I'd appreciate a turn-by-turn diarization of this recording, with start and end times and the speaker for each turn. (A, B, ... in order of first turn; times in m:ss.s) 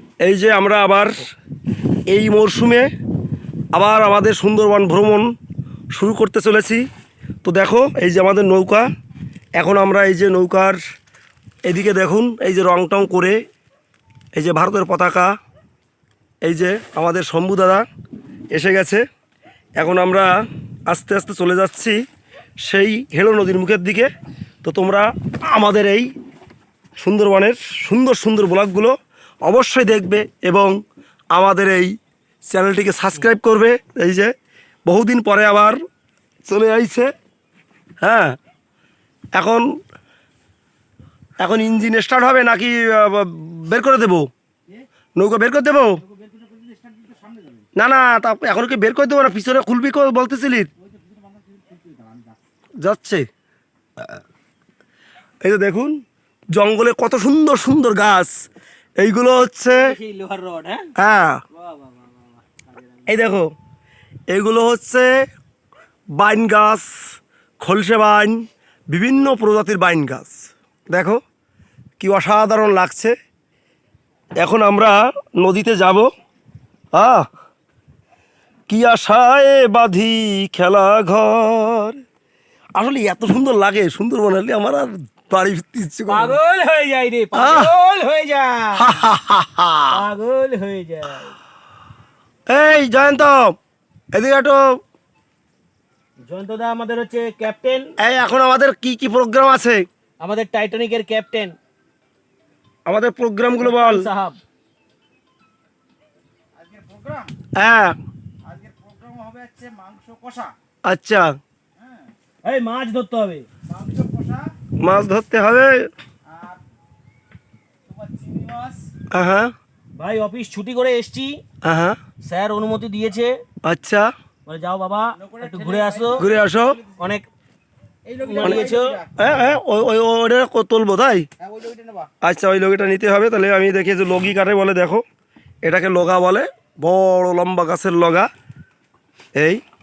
0:00.2-0:01.3 A
0:02.1-0:02.9 A
0:03.7-0:05.3 A
0:05.9-0:06.8 A
0:07.4-0:08.9 A
0:09.6-0:10.8 A
0:11.6-0:13.4 A
0:14.4-0:15.3 A
0:16.4-0:17.8 A
0:18.5-0:19.0 A
0:19.8-0:20.3 A
0:20.9-0:22.0 A
0:22.6-0:24.1 A
0:24.6-0:26.1 A
0:27.0-0:28.9 A
0:29.4-0:30.7 A
0:31.3-0:31.9 A
0:32.5-0:34.3 A
0:34.9-0:35.8 A
0:36.5-0:37.1 A
0:38.0-0:38.4 A
0:39.4-0:39.6 A
0:41.4-0:44.3 A
0:45.2-0:46.0 A
0:46.2-0:47.6 B
0:47.8-0:50.7 A
0:51.1-0:52.4 B
0:52.8-0:53.2 A
0:55.4-0:56.0 A
0:56.5-0:58.3 A
0:59.0-0:59.9 A
0:59.7-1:00.9 C
1:01.0-1:01.4 A
1:01.5-1:03.2 C
1:03.1-1:03.5 A
1:04.3-1:05.1 A
1:06.2-1:06.9 A
1:07.6-1:11.2 A
1:12.0-1:13.1 A
1:14.4-1:16.1 A
1:16.9-1:17.2 A
1:18.7-1:22.0 A
1:22.8-1:26.4 A
1:26.1-1:29.0 C
1:27.3-1:27.7 A
1:28.8-1:30.0 A
1:29.9-1:31.3 C
1:32.5-1:33.5 A
1:34.1-1:34.6 A
1:36.3-1:37.9 C
1:38.0-1:39.8 A
1:40.2-1:41.5 C
1:42.9-1:44.0 A
1:43.6-1:44.4 C
1:46.6-1:47.3 B
1:47.6-1:48.0 A
1:48.4-1:50.5 B
1:50.9-1:51.3 A
1:51.8-1:52.1 B
1:52.4-1:53.6 C
1:53.7-1:54.5 B
1:54.8-1:55.9 A
1:56.3-1:56.6 B
1:57.8-1:58.9 B
1:59.1-1:59.5 A
2:00.0-2:01.4 C
2:01.6-2:02.0 A
2:02.2-2:03.4 C
2:03.6-2:04.1 A
2:04.5-2:06.3 C
2:05.8-2:06.1 B
2:06.2-2:06.8 A
2:06.9-2:07.2 C
2:08.2-2:09.0 C
2:08.4-2:11.2 A
2:11.4-2:12.1 B
2:12.2-2:15.0 A
2:15.6-2:18.3 A
2:19.3-2:19.6 A